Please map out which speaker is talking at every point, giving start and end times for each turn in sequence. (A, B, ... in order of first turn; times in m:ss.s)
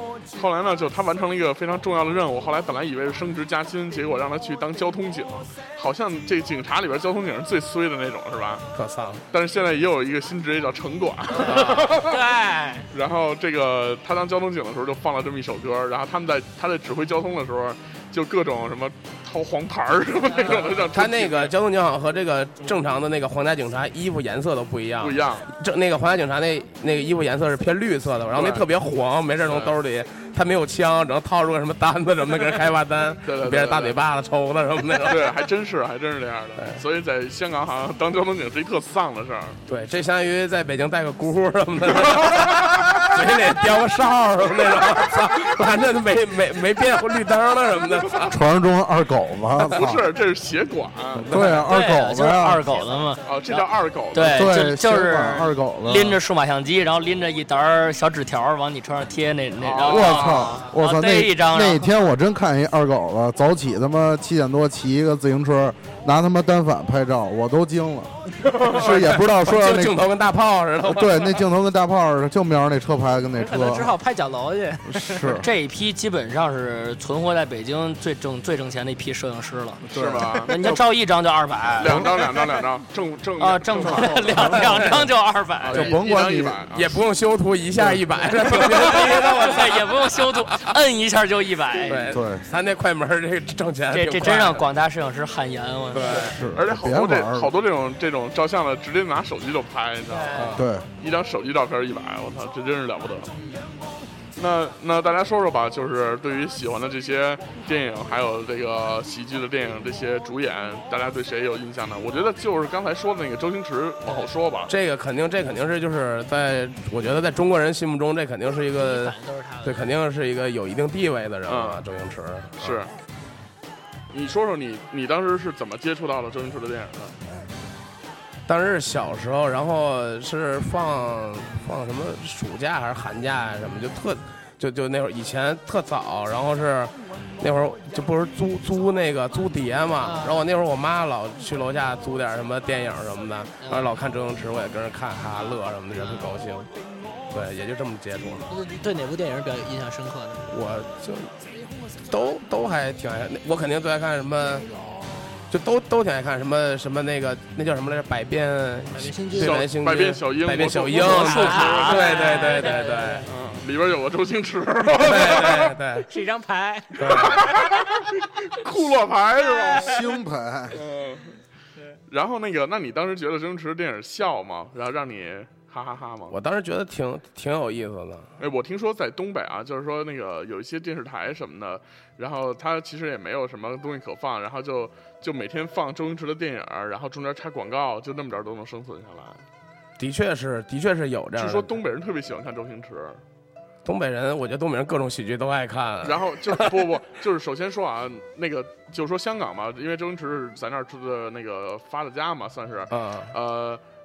0:00.3-0:08.7 A
0:08.8-0:09.2 B
0:09.3-0:12.3 A
0:11.4-0:11.9 B
0:11.5-0:12.9 C
0:12.9-0:21.6 A
0:20.4-0:20.8 C
0:20.5-0:35.4 B
0:25.0-0:25.5 A
0:28.3-0:28.7 A
0:29.4-0:29.8 A
0:33.2-0:34.0 A
0:35.0-0:39.6 A
0:39.7-0:48.4 B
0:42.1-0:42.8 A
0:48.3-0:50.0 D
0:49.7-0:51.4 A
0:51.2-0:52.6 D
0:51.3-0:51.7 B
0:51.7-1:01.9 E
0:53.2-0:54.5 A
0:54.2-0:56.2 D
0:59.6-1:00.6 A
0:59.8-1:10.0 D
1:08.5-1:09.0 A
1:08.7-1:11.4 B
1:10.8-1:13.9 D
1:13.4-1:15.3 C
1:14.8-1:15.5 D
1:15.4-1:19.8 E
1:19.9-1:20.8 D
1:19.9-1:20.6 A
1:20.4-1:22.3 E
1:21.8-1:22.1 D
1:21.8-1:24.3 A
1:23.4-1:25.9 E
1:23.8-1:25.1 D
1:24.4-1:25.1 B
1:25.6-1:27.0 A
1:25.7-1:26.6 D
1:26.7-1:30.7 B
1:27.8-1:28.0 D
1:28.5-1:32.2 E
1:31.9-1:34.7 B
1:32.1-1:32.4 D
1:33.9-1:36.3 E
1:35.9-1:36.4 B
1:36.1-1:37.5 D
1:36.1-1:43.3 A
1:40.1-1:40.6 C
1:40.3-1:40.7 B
1:40.6-1:40.9 D
1:43.3-1:43.7 C
1:44.4-1:54.7 A
1:54.7-2:02.8 B
1:58.7-1:59.9 C
2:01.5-2:01.9 A
2:02.6-2:02.9 A
2:04.1-2:07.2 A
2:08.5-2:26.7 B
2:20.0-2:20.4 C
2:23.6-2:23.9 C
2:26.0-2:26.3 C
2:27.3-2:28.5 B
2:28.5-2:30.5 C
2:30.5-2:31.3 B
2:32.1-2:34.7 B
2:35.5-2:43.3 B
2:38.9-2:39.7 C
2:39.4-2:42.1 A
2:40.9-2:43.3 C
2:41.5-2:42.1 E
2:43.3-2:45.8 A
2:45.0-2:46.1 B
2:46.0-2:47.5 C
2:47.0-2:47.4 B
2:47.0-2:50.2 A
2:49.8-2:50.8 D
2:50.7-2:51.3 A
2:52.1-2:56.4 A
2:56.3-2:58.3 B
2:58.4-3:09.4 A
3:10.0-3:11.7 B
3:11.4-3:13.2 A
3:13.8-3:16.9 B
3:16.0-3:23.8 A
3:22.9-3:23.3 B